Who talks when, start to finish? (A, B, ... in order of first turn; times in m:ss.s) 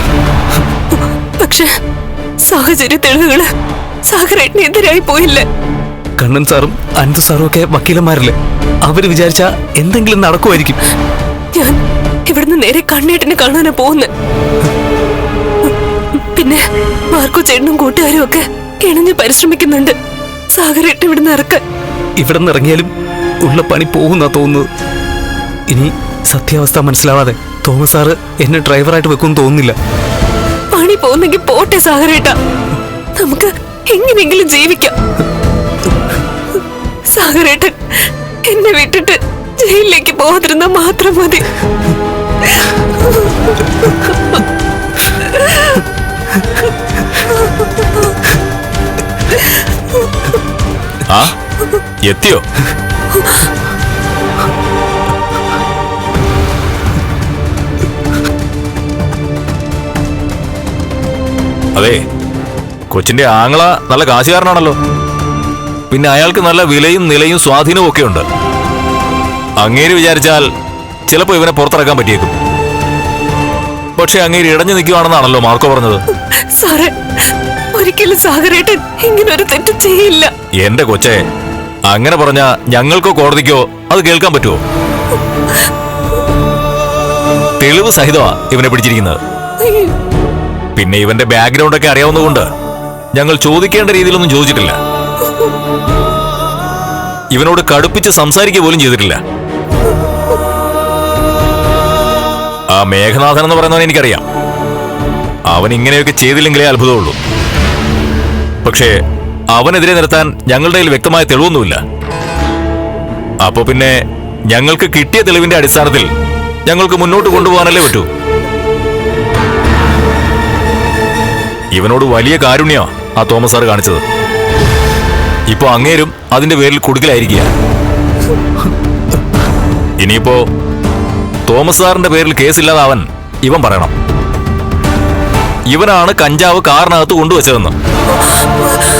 0:01.4-0:01.7 A
0:02.4-0:03.5 A
0:04.1-0:05.4 A
0:06.2-0:10.8 B
0:11.5-0:14.1 A
0:17.1-0:19.9 A
0:20.5-0:21.6 A
0:22.2-0:24.7 B
0:25.7-0:29.8 B
0:30.7-0:32.3 A
0:33.2-0:34.9 A
0:37.1-0:37.8 A
0:38.4-0:41.4 A
0:45.3-0:45.8 A
0:52.0-0:52.4 C
1:01.7-1:02.0 C
1:02.9-1:04.8 C
1:05.9-1:08.2 C
1:09.6-1:10.5 C
1:11.1-1:12.3 C
1:14.0-1:16.0 C
1:16.6-1:16.9 A
1:17.7-1:20.3 A
1:20.6-1:21.2 C
1:21.9-1:24.6 C
1:27.6-1:29.2 C
1:30.8-1:32.5 C
1:33.1-1:34.8 C
1:37.3-1:39.2 C
1:42.7-1:44.2 C
1:45.5-1:47.2 C
1:48.6-1:48.9 C
1:49.5-1:51.8 C
1:53.4-1:54.0 C
1:54.5-1:56.1 C
1:56.6-1:58.1 C
2:01.7-2:04.0 C
2:05.5-2:07.5 C
2:10.0-2:10.4 C
2:11.5-2:13.9 C
2:15.7-2:17.7 C